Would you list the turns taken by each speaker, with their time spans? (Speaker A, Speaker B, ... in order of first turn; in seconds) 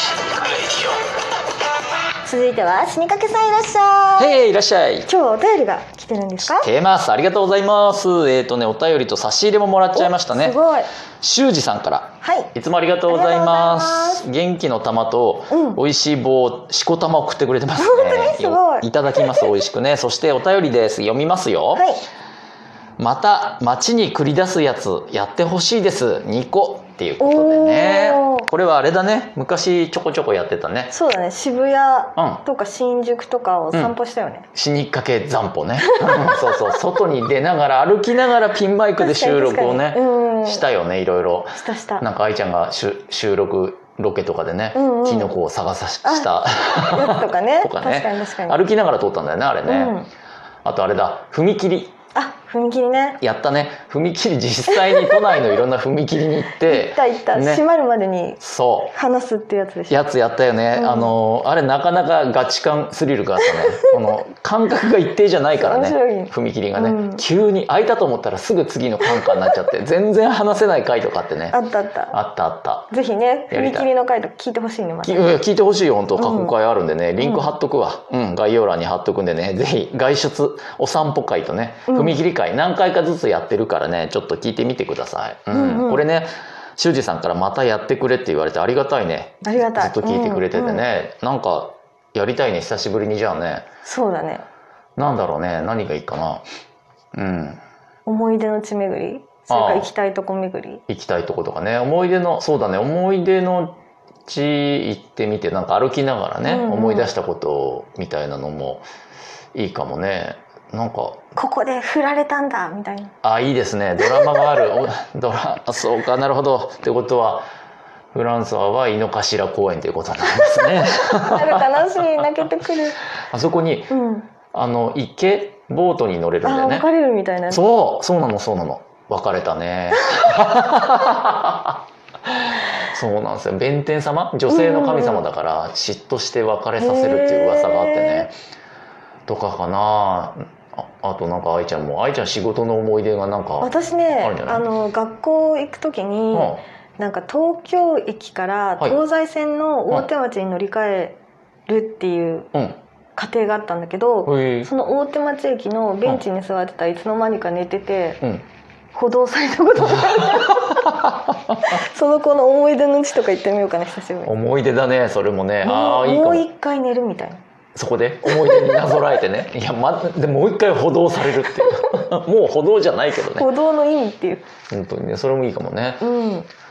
Speaker A: 2.2-4.4, 5.0-6.7, 9.9-10.9, 12.2-12.5, 13.1-14.2, 15.5-15.8, 17.8-18.9, 21.7-22.0, 27.2-28.5, 30.9-34.5, 35.8-36.8, 39.0-40.6, 41.5-42.0, 44.7-45.3, 46.0-48.6, 49.7-50.1, 52.1-53.2, 54.7-55.2, 56.6-58.4, 58.9-60.0, 60.7-61.1, 65.6-67.2, 71.5-72.2, 72.9-75.4, 76.1-76.5, 77.2-77.5, 81.9-82.2, 85.5-86.0, 89.4-90.8, 93.8-94.5, 98.0-100.8, 106.4-107.1, 111.3-113.1, 114.0-114.5, 120.6-123.0, 123.9-124.3, 126.4-127.6, 134.5-135.2, 136.8-138.3, 143.6-152.5, 153.2-158.2, 158.9-160.8, 161.6-164.3, 165.6-167.4, 168.2-169.0, 173.3-174.4, 176.0-176.5
Speaker B: 4.2-5.1, 6.4-10.6, 11.2-21.9, 23.0-30.9, 32.1-32.4, 34.5-49.9, 50.6-51.9, 53.2-57.6, 58.4-58.9, 59.9-71.6, 72.1-72.9, 73.5-73.9, 75.0-93.7, 95.0-96.4, 97.1-97.6, 99.5-99.9, 100.9-108.8, 109.5-111.2, 113.2-117.5, 118.1-121.7, 123.2-123.9, 124.5-126.8, 127.5-131.7, 132.4-138.3, 139.3-144.6, 146.3-146.6, 154.2-154.7, 160.3-161.7, 164.2-166.4, 167.8-173.5, 174.7-176.1